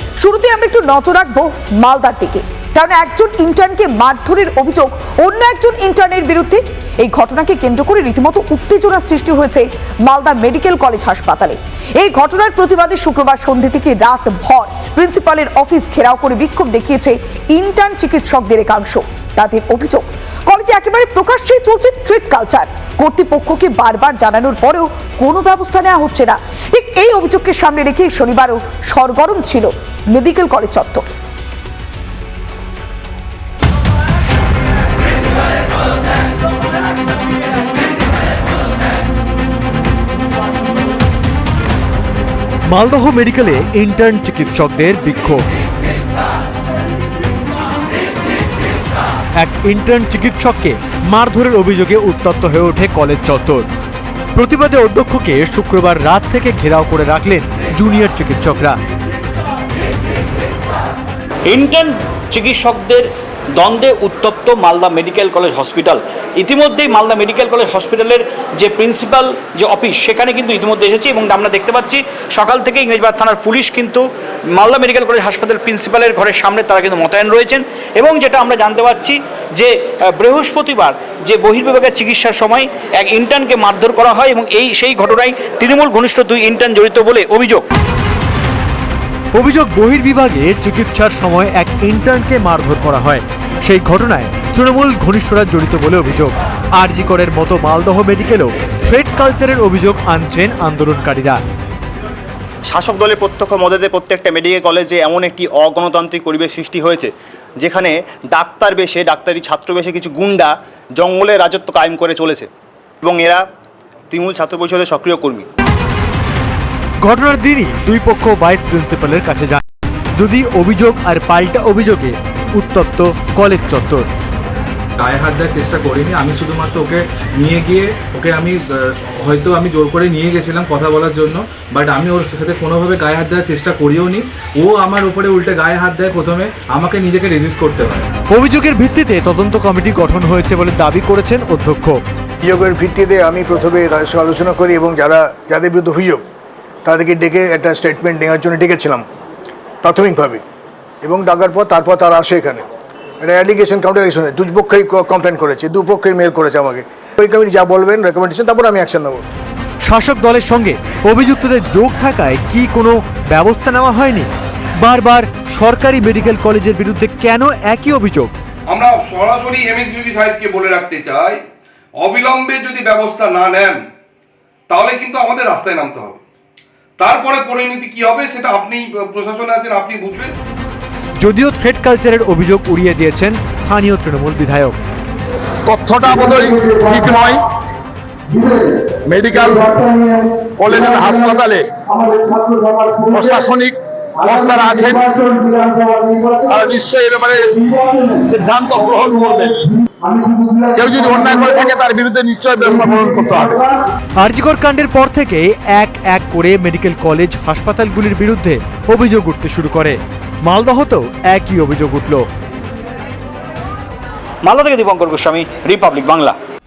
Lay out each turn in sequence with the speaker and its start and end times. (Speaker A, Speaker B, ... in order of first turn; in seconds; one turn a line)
Speaker A: 0.2-31.1
Speaker B: 42.7-45.4
Speaker B: 49.4-53.7
Speaker B: 54.4-58.8
Speaker C: 61.5-63.1
Speaker C: 63.6-74.0
Speaker C: 74.6-87.6
Speaker B: 89.3-101.4
Speaker D: 102.7-112.5
Speaker D: 113.0-113.5
Speaker D: 114.1-115.5
Speaker B: 117.0-119.6
Speaker B: 120.2-124.0
Speaker E: 125.0-138.1
Speaker B: 138.3-142.0
Speaker F: 142.4-146.2
Speaker F: 146.8-149.1
Speaker F: 149.8-150.4
Speaker F: 151.0-152.7
Speaker F: 153.2-159.2
Speaker B: 159.8-164.3
Speaker B: 164.8-168.3
Speaker G: 168.7-171.4
Speaker G: 172.0-173.8
Speaker G: 174.7-176.2
Speaker G: 177.0-180.3
Speaker B: 181.2-184.8
Speaker H: 185.7-187.5
Speaker H: 188.3-203.8
Speaker B: 204.2-212.2
Speaker C: 214.4-216.3